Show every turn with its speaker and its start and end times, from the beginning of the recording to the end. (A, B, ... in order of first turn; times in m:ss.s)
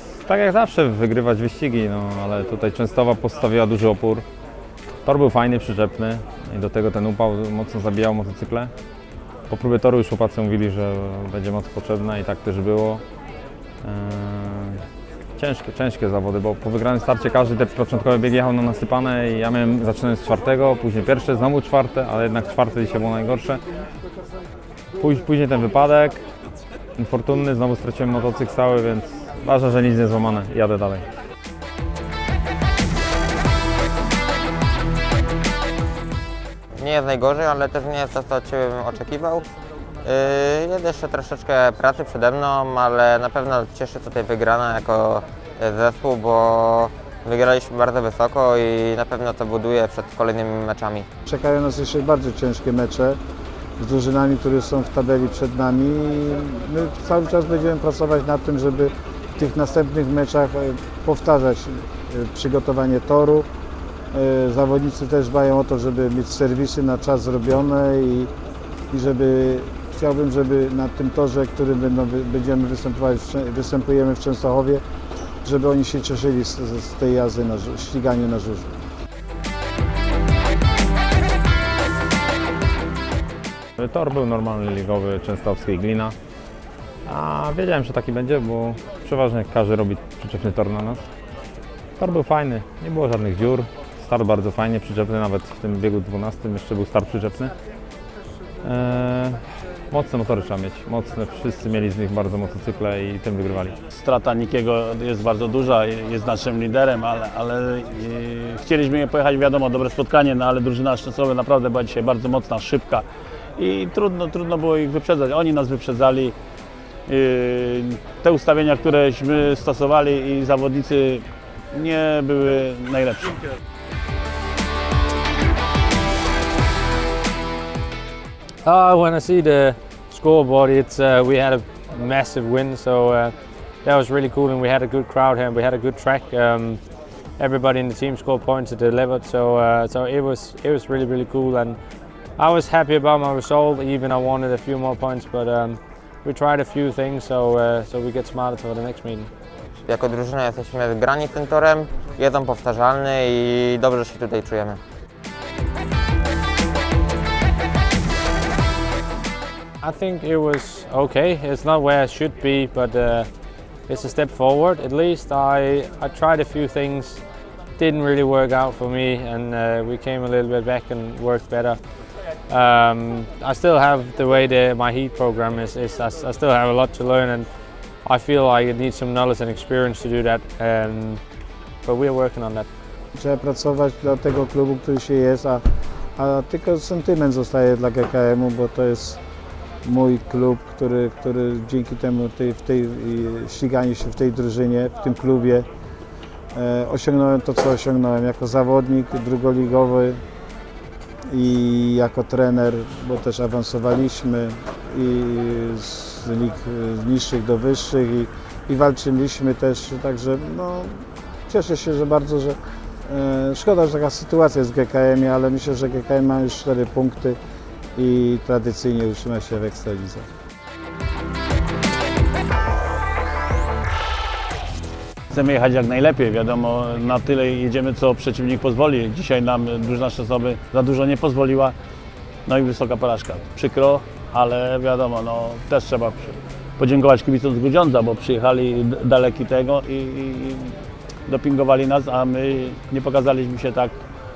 0:00.2-0:04.2 A
0:05.0-0:08.7 A
0:09.5-0:13.0 A
0:13.8-0:14.8 A
0:15.4-0:23.6 A
0:25.0-0:26.2 A
0:27.0-0:31.1 A
0:36.8-0:39.5 B
0:40.0-0:51.1 B
0:51.3-0:53.2 C
0:53.8-1:03.5 C
1:04.1-1:08.3 C
1:08.9-1:14.8 C
1:15.4-1:18.7 C
1:23.8-1:26.2 A
1:27.1-1:31.1 A
1:32.0-1:37.5 A
1:38.6-1:43.8 A
1:43.9-1:53.0 D
1:53.6-1:56.4 D
1:57.1-2:03.4 D
2:08.6-2:16.8 E
2:17.4-2:21.8 E
2:22.4-2:29.3 E
2:29.9-2:34.8 B
2:39.8-2:43.3 E
2:43.9-2:47.2 E
2:47.8-2:51.8 E
2:52.5-2:57.5 E
2:58.0-3:01.2 E
3:01.8-3:02.7 E
3:03.2-3:05.6 C
3:06.2-3:09.2 C
3:09.8-3:15.7 C
3:16.5-3:20.2 C
3:21.3-3:37.4 C
3:38.0-3:40.3 C
3:45.3-3:51.8 D
3:52.5-4:04.0 D